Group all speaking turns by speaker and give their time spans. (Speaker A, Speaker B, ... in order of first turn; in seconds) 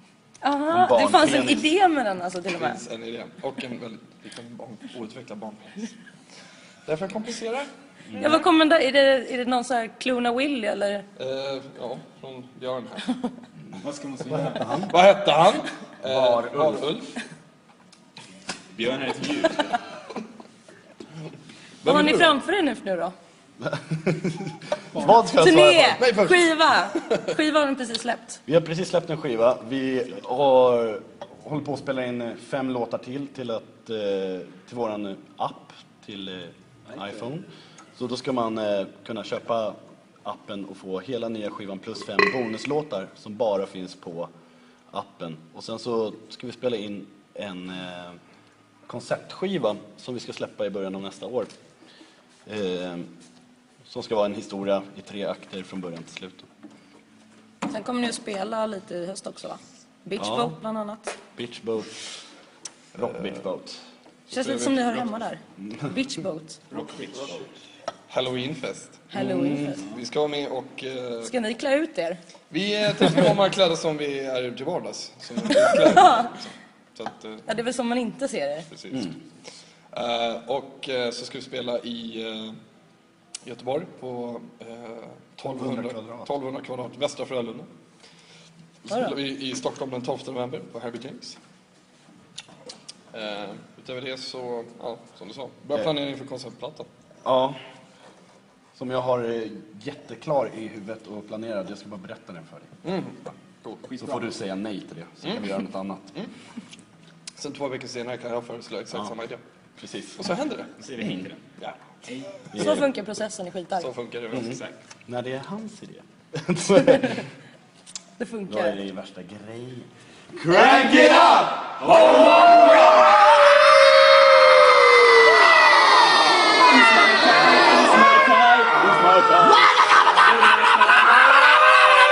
Speaker A: 0.4-2.8, 8.1-11.1, 21.8-23.1, 25.1-28.4, 57.7-61.2, 64.3-66.6, 69.1-69.8, 71.2-72.2, 75.5-76.3, 77.5-78.7, 112.5-113.9, 118.2-118.8
Speaker B: 0.7-1.7, 14.3-14.9, 16.1-16.7, 23.6-26.1, 28.5-44.3, 44.9-48.2, 48.9-51.5, 52.5-53.1, 53.9-56.5, 60.2-60.6, 61.4-61.9, 62.9-63.8, 69.2-69.8, 85.5-86.3, 97.2-97.6, 98.8-102.7, 104.0-106.3, 109.8-110.2, 112.5-112.9, 114.3-117.3, 118.5-121.4, 128.0-129.7
Speaker C: 2.5-5.9, 6.9-7.7, 11.2-13.1, 14.2-17.1, 21.8-22.4, 26.0-26.4, 64.3-65.0, 68.1-71.3, 72.5-77.5, 78.7-79.1, 79.9-82.6, 83.4-87.7, 88.9-91.4, 93.1-96.9, 102.8-104.1, 107.4-109.4, 110.2-110.9, 113.8-114.6
Speaker D: 13.8-14.7, 18.7-19.8, 66.7-67.4, 110.8-111.4, 120.7-122.5, 127.0-128.2